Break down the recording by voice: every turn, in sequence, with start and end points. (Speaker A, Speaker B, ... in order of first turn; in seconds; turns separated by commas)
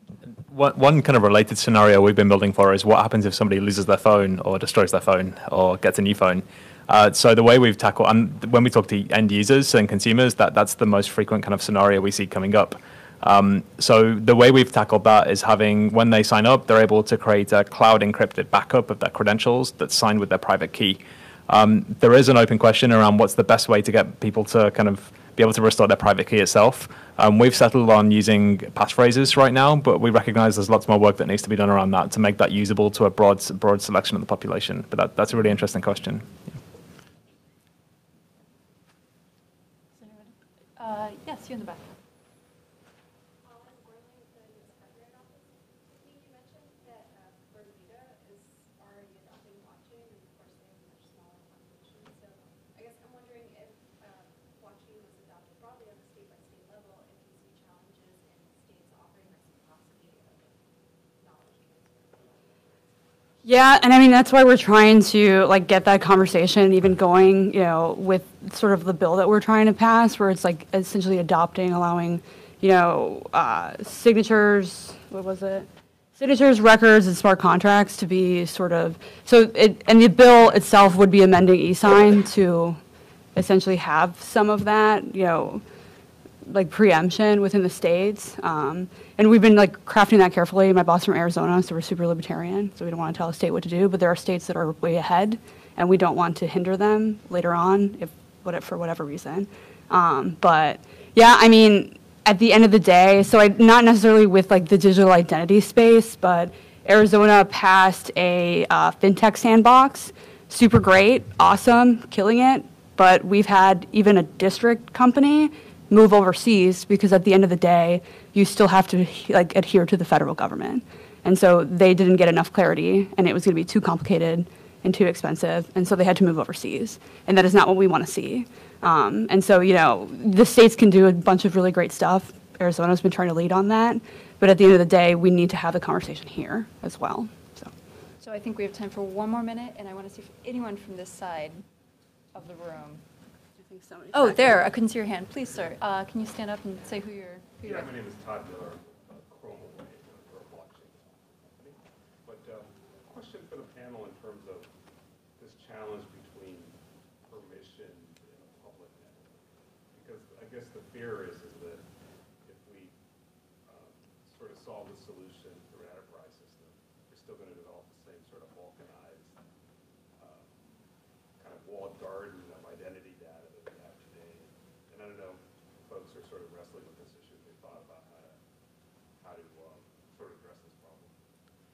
Speaker A: 0.5-36.3, Speaker B: 40.0-41.8, Speaker C: 43.4-62.9, Speaker D: 63.4-82.8, Speaker D: 83.3-85.6, Speaker D: 86.5-137.7, Speaker B: 138.2-141.6, Speaker B: 142.3-143.0, Speaker D: 143.6-144.7, Speaker B: 144.1-147.9, Speaker E: 147.6-154.7, Speaker E: 155.4-161.9, Speaker E: 162.4-163.0, Speaker E: 163.7-169.4, Speaker E: 170.2-170.6, Speaker E: 171.4-178.4, Speaker E: 179.2-181.1